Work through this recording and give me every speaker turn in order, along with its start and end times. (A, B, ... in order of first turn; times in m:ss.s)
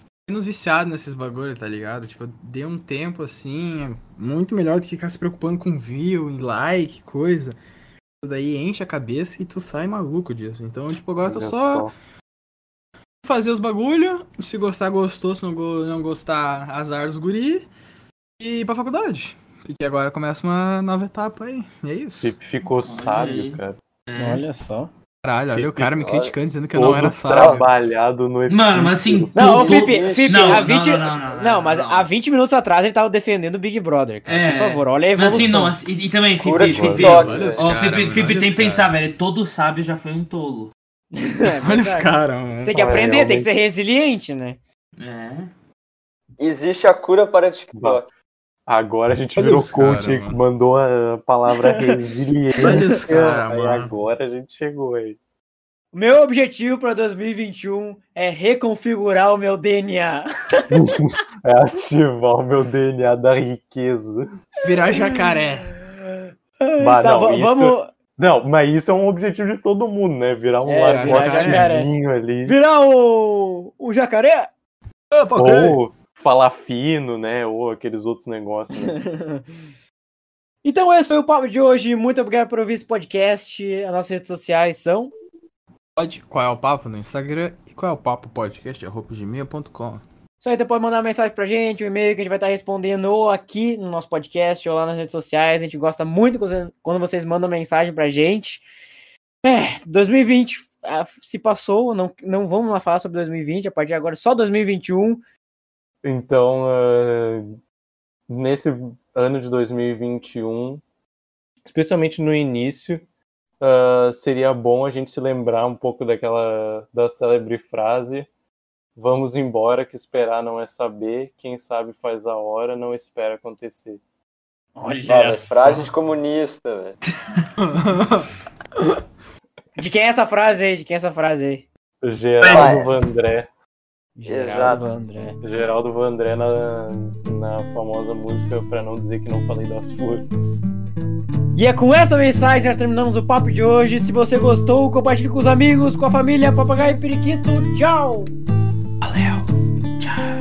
0:00.2-0:07.6 A
0:08.2-0:11.9 A
0:11.2-0:11.9 B
0:13.2-0:17.7 A
0:18.4-0:22.3 A
0:22.2-0:23.8 B
0:22.8-0:24.4 C
0:24.2-0:24.9 D
0:25.2-0:27.6 A
0:25.5-0:26.0 B
0:26.0-0:26.3 E
0:26.7-0:29.6 B
0:27.3-0:27.6 E
0:28.5-0:32.1 C
0:29.3-0:35.7 D
0:29.4-0:30.6 E
0:34.3-0:40.7 C
0:36.4-0:37.6 E
0:36.6-0:37.5 B
0:37.0-0:38.9 A
0:41.1-0:44.6 D
0:41.6-0:42.8 A
0:42.7-0:43.5 B
0:45.0-0:45.5 C
0:46.4-0:48.1 E
0:47.7-0:48.0 B
0:48.7-0:55.2 B
0:49.4-0:50.4 A
0:51.5-0:51.9 D
0:52.6-0:53.9 A
0:55.9-1:00.8 D
1:00.7-1:04.3 B
1:04.6-1:05.7 A
1:04.7-1:07.9 D
1:06.8-1:12.6 B
1:10.6-1:11.9 D
1:10.8-1:11.7 A
1:12.4-1:14.5 D
1:15.1-1:15.8 A
1:15.3-1:19.0 B
1:18.8-1:19.6 D
1:20.6-1:25.1 D
1:26.0-1:30.0 A
1:30.4-1:38.6 D
1:39.4-1:45.2 D
1:46.0-1:47.6 B
1:48.3-1:50.8 B
1:51.6-1:53.0 B
1:53.6-1:58.3 B
1:59.0-2:04.0 B
2:04.8-2:05.9 D
2:05.0-2:07.0 E
2:07.6-2:08.3 A
2:09.8-2:11.6 D
2:12.0-2:13.5 B
2:12.5-2:12.9 E
2:14.2-2:15.4 D
2:14.2-2:14.8 E
2:15.4-2:20.4 B
2:21.6-2:28.3 D
2:29.0-2:29.5 A